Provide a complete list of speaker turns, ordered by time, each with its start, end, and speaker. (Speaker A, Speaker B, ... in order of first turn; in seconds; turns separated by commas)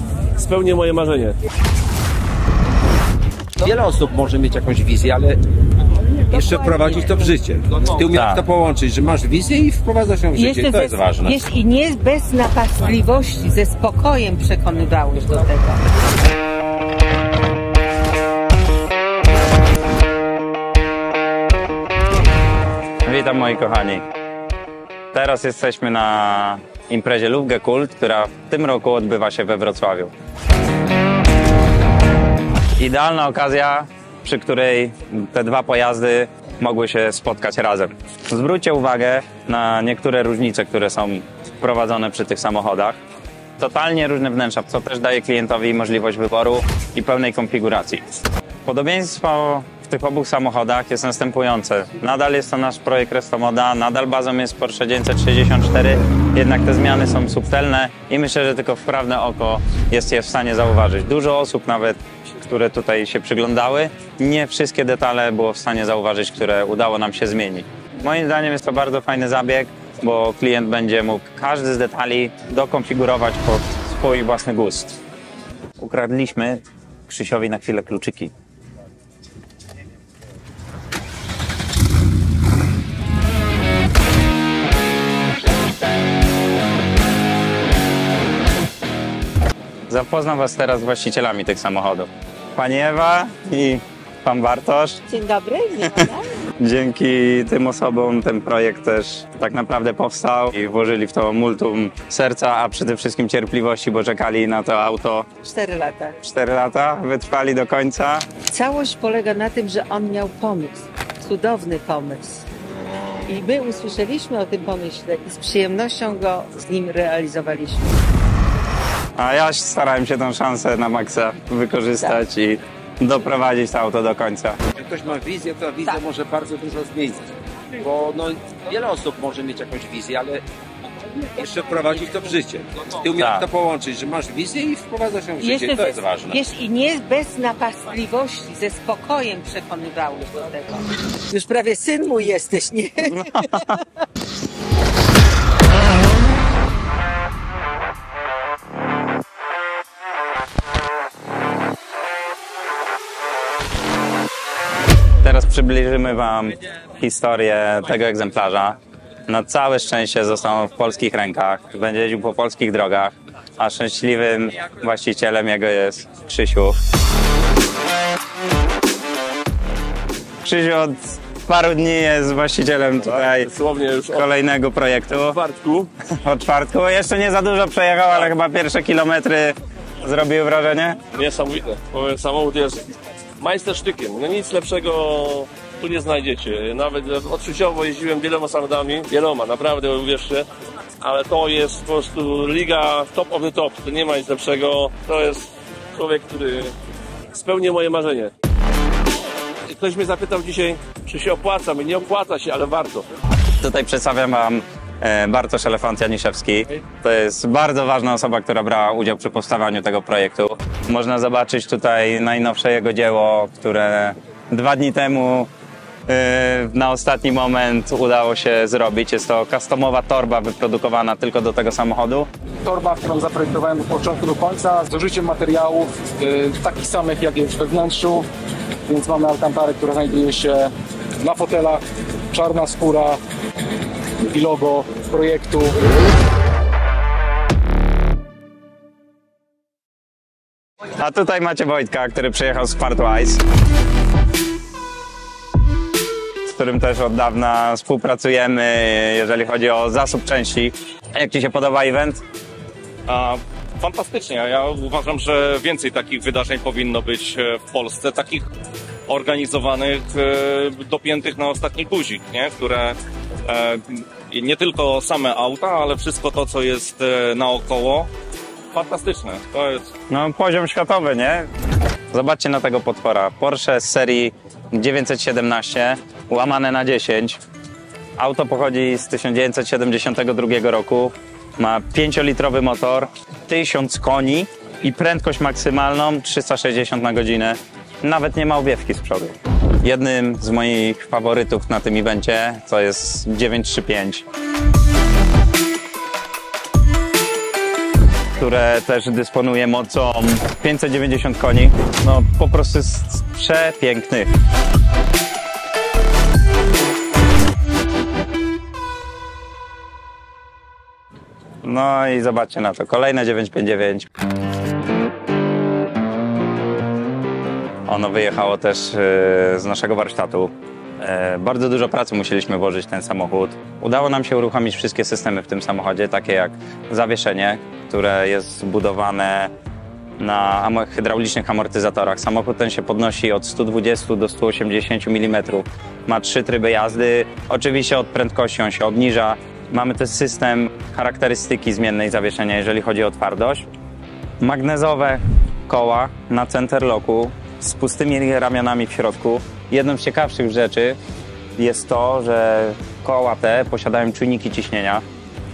Speaker A: 0.3-1.4, Speaker B: 3.6-5.4, Speaker B: 6.3-11.4, Speaker C: 8.1-8.4, Speaker D: 10.3-15.8, Speaker C: 23.1-24.0, Speaker C: 25.1-30.1, Speaker C: 32.8-43.0, Speaker C: 43.6-48.0, Speaker C: 48.6-75.0, Speaker C: 75.8-78.3, Speaker C: 89.9-95.0, Speaker D: 95.1-96.3, Speaker C: 96.6-105.3, Speaker D: 105.4-106.2, Speaker C: 106.2-108.3, Speaker D: 108.4-112.4, Speaker D: 113.2-117.9, Speaker C: 119.2-124.6, Speaker B: 124.7-127.2, Speaker B: 127.8-130.4, Speaker B: 131.2-136.4, Speaker C: 133.2-133.4, Speaker D: 135.4-143.8, Speaker C: 143.1-143.7, Speaker C: 155.2-166.8, Speaker C: 170.4-173.5, Speaker A: 173.0-174.2, Speaker C: 174.1-175.4, Speaker A: 175.2-175.9, Speaker C: 176.1-181.0, Speaker A: 181.1-182.8, Speaker A: 183.4-190.5, Speaker A: 191.0-196.7, Speaker A: 197.3-198.3, Speaker A: 199.7-203.0, Speaker C: 203.6-215.5, Speaker C: 216.1-222.3, Speaker E: 222.6-228.2, Speaker E: 228.9-233.2, Speaker E: 234.3-235.7, Speaker C: 241.0-243.4, Speaker C: 246.5-252.2, Speaker F: 253.1-258.5, Speaker F: 259.1-268.1, Speaker F: 268.7-269.9, Speaker C: 270.1-271.5, Speaker C: 272.1-277.4, Speaker C: 278.2-294.2, Speaker C: 298.4-304.3, Speaker C: 311.6-314.1, Speaker C: 317.9-329.5, Speaker C: 330.2-343.7, Speaker C: 344.4-351.0, Speaker C: 351.6-355.0